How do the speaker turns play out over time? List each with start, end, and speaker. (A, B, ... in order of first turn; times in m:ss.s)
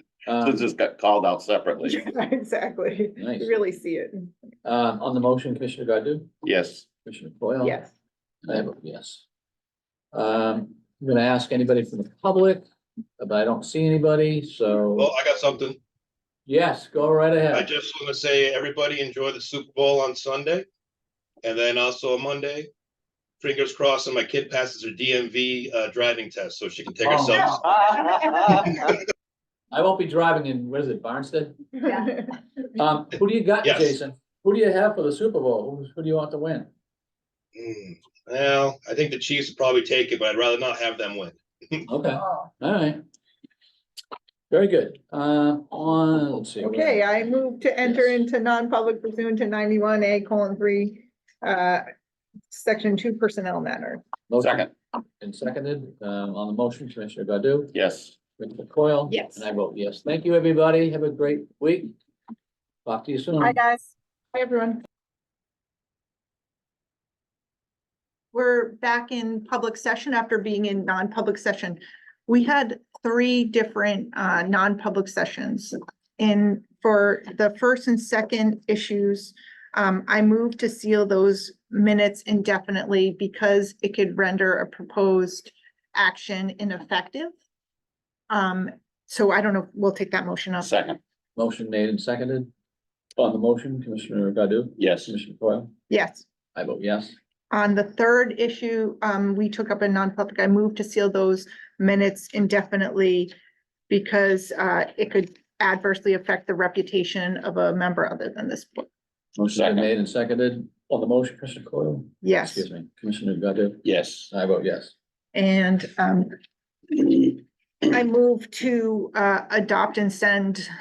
0:00.3-0:00.6 A
0:00.4-0:02.0 B
0:01.8-0:04.3 C
0:03.2-0:03.6 A
0:04.6-0:06.3 A
0:06.4-0:06.9 B
0:07.0-0:07.8 A
0:07.6-0:07.9 C
0:08.4-0:09.2 A
0:10.1-0:12.7 A
0:13.2-0:15.1 A
0:15.0-0:15.8 D
0:16.5-0:17.7 A
0:17.5-0:20.7 D
0:21.4-0:22.7 D
0:23.4-0:27.8 D
0:27.0-0:27.6 A
0:29.7-0:31.6 A
0:32.8-0:36.7 A
0:33.6-0:34.0 D
0:37.6-0:41.4 D
0:41.9-0:43.0 A
0:44.5-0:47.1 A
0:46.6-0:51.8 C
0:47.8-0:48.2 A
0:52.5-0:54.0 C
0:54.3-0:54.7 A
0:54.4-0:54.7 B
0:55.2-0:57.8 A
0:57.7-0:58.2 B
0:58.4-1:02.0 A
0:59.1-0:59.5 C
1:02.8-1:03.6 A
1:03.4-1:04.8 C
1:08.3-1:27.3 C
1:28.3-1:30.7 C
1:30.6-1:31.0 B
1:31.4-1:32.5 A
1:33.2-1:35.7 A
1:34.8-1:35.2 B
1:35.9-1:36.3 C
1:36.6-1:37.2 A
1:37.5-1:43.3 C
1:43.9-1:48.9 C
1:49.4-1:54.9 A
1:49.6-1:49.9 B
1:52.2-1:52.7 C
1:53.8-1:54.3 B
1:55.3-1:56.3 C
1:57.0-1:57.3 C
1:57.9-2:00.7 C